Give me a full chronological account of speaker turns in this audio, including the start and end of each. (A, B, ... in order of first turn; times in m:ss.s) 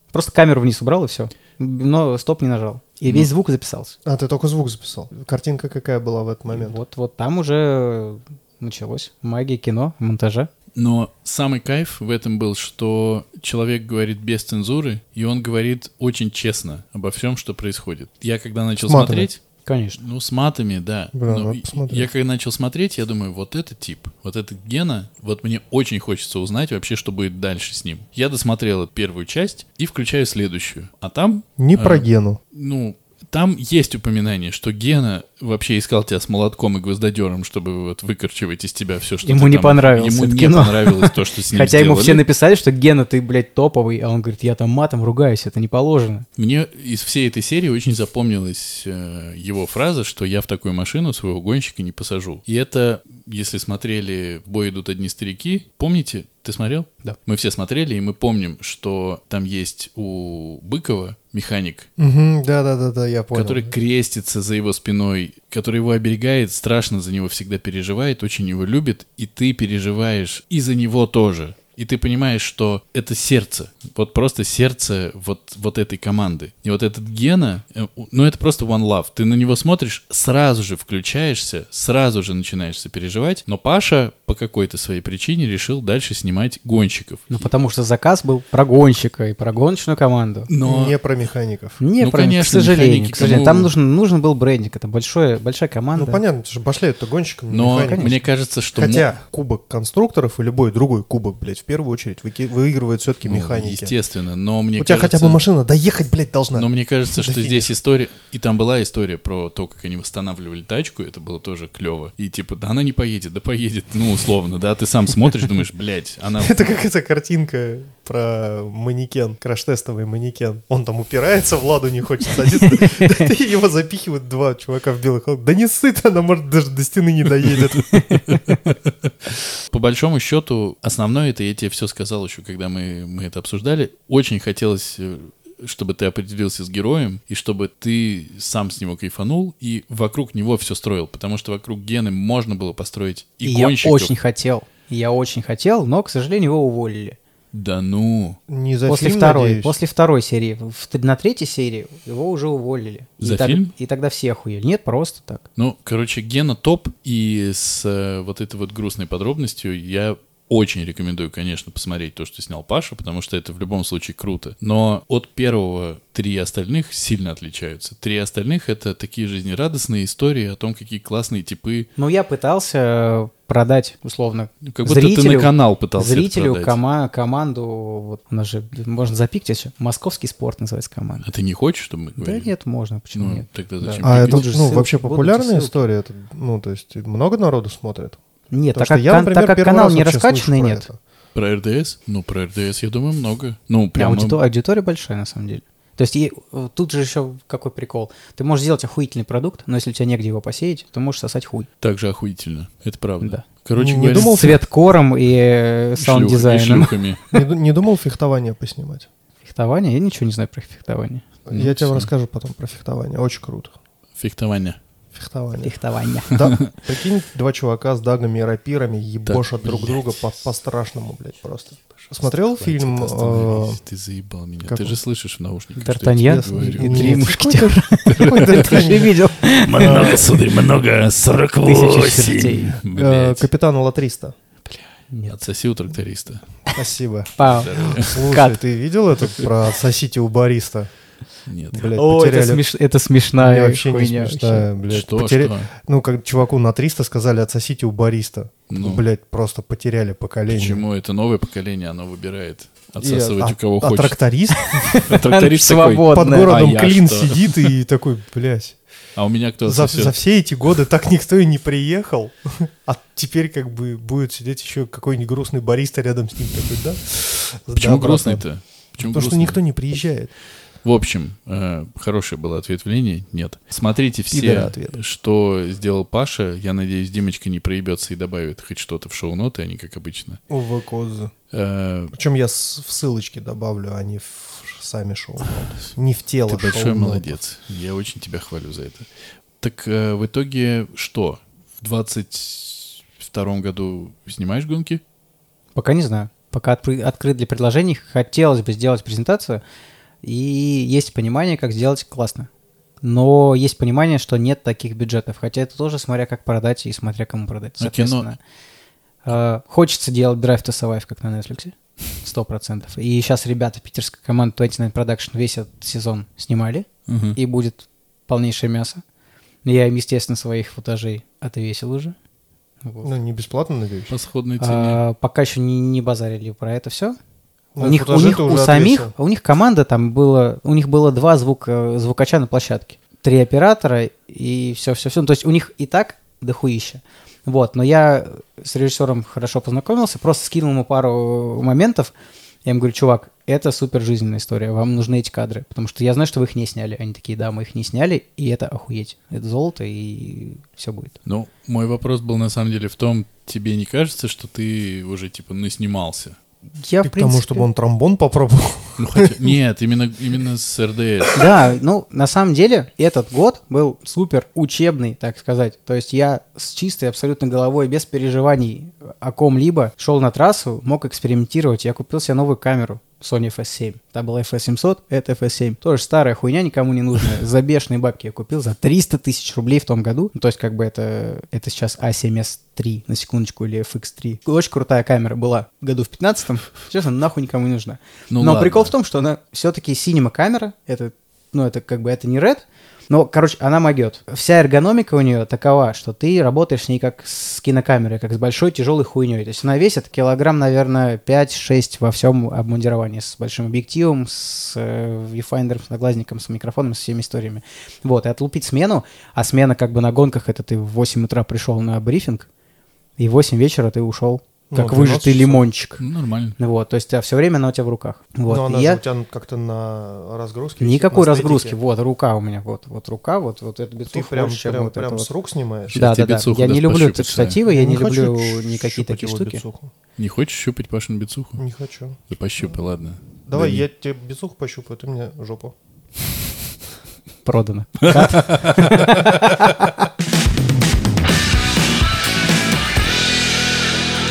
0:00.1-0:03.9 A
0:04.0-0:06.8 B
0:06.5-0:10.5 A
0:10.8-0:19.4 C
0:18.8-0:19.3 B
0:19.6-0:20.0 A
0:20.0-0:42.2 C
0:21.1-0:22.1 B
0:31.6-0:32.4 B
0:39.2-0:46.2 A
0:46.4-1:01.9 C
1:02.0-1:03.7 B
1:03.3-1:27.5 C
1:27.3-1:30.5 A
1:30.5-1:31.0 C
1:30.6-1:31.8 B
1:31.8-1:36.2 A
1:32.0-1:33.7 C
1:35.9-1:43.9 B
1:37.5-1:39.1 C
1:37.8-1:38.1 A
1:43.2-1:45.4 C
1:44.8-1:47.7 B
1:46.5-1:56.6 C
1:56.4-2:08.0 B
2:02.6-2:03.2 A
2:07.9-2:08.2 A
2:08.3-2:09.1 C
2:09.7-2:24.1 C
2:23.4-2:27.2 A
2:27.5-2:28.4 C
2:28.5-2:29.8 B
2:28.9-2:35.4 A
2:33.2-2:33.7 C
2:35.6-2:51.9 C
2:52.0-3:01.2 A
2:54.6-2:56.8 C
3:01.2-3:02.5 C
3:02.2-3:05.8 A
3:03.1-3:04.5 C
3:03.9-3:08.2 B
3:08.5-3:10.9 A
3:08.7-3:11.0 B
3:11.3-3:14.4 C
3:14.0-3:21.7 A
3:21.8-3:24.4 C
3:23.8-3:24.6 B
3:24.1-3:27.4 A
3:26.0-3:27.2 C
3:27.3-3:29.1 B
3:29.4-3:31.4 A
3:31.5-3:33.7 B
3:31.5-3:32.1 C
3:34.2-3:34.8 C
3:35.1-3:35.8 B
3:35.6-3:36.4 A
3:36.3-3:43.8 B
3:36.3-3:36.7 C
3:39.2-3:40.1 C
3:42.5-3:47.3 C
3:44.6-3:45.0 B
3:45.8-3:50.4 A
3:46.3-3:49.2 B
3:48.0-3:49.0 C
3:49.5-3:53.5 C
3:49.8-3:50.2 B
3:51.6-3:52.8 A
3:52.8-3:54.3 B
3:54.6-3:56.5 C
3:56.7-4:00.9 B
3:57.4-3:58.6 A
3:57.4-3:58.2 C
4:01.4-4:01.9 C
4:01.7-4:02.6 B
4:01.9-4:04.7 A
4:03.4-4:10.8 B
4:04.9-4:05.7 C
4:08.7-4:09.0 C
4:10.5-4:14.2 C
4:13.0-4:14.9 B
4:14.7-4:16.6 A
4:14.8-4:17.6 C
4:16.1-4:18.8 B
4:19.1-4:20.2 C
4:19.6-4:30.3 B
4:27.7-4:29.6 C
4:30.8-4:40.4 C
4:34.3-4:35.0 B
4:40.5-4:41.3 B
4:41.5-4:42.1 C
4:42.1-4:47.4 B
4:46.5-4:49.1 C
4:49.6-4:55.0 C
4:55.7-4:59.6 A
5:00.2-5:02.5 A
5:03.0-5:08.4 A
5:07.8-5:08.3 C
5:09.2-5:19.0 A
5:17.1-5:17.4 C
5:19.6-5:22.1 A
5:22.8-5:23.1 A
5:23.0-5:24.1 B
5:24.1-5:25.0 C
5:24.6-5:27.2 A
5:27.8-5:29.1 B
5:27.8-5:42.1 A
5:42.6-5:51.2 A
5:51.2-5:56.4 C
5:56.8-5:57.7 A
5:57.0-5:59.5 B
5:59.0-6:01.4 C
6:01.3-6:52.5 A
6:28.3-6:28.9 C
6:53.2-6:56.0 A
6:54.7-6:55.6 B
6:56.0-6:56.6 C
6:56.6-6:59.0 A
6:58.5-7:01.8 B
7:00.8-7:05.3 A
7:04.1-7:06.0 B
7:05.9-7:07.6 C
7:05.9-7:09.6 A
7:07.6-7:09.9 B
7:10.2-7:11.6 C
7:11.6-7:12.2 B
7:12.3-7:13.8 C
7:13.4-7:15.7 B
7:17.4-7:19.9 A
7:18.0-7:19.5 C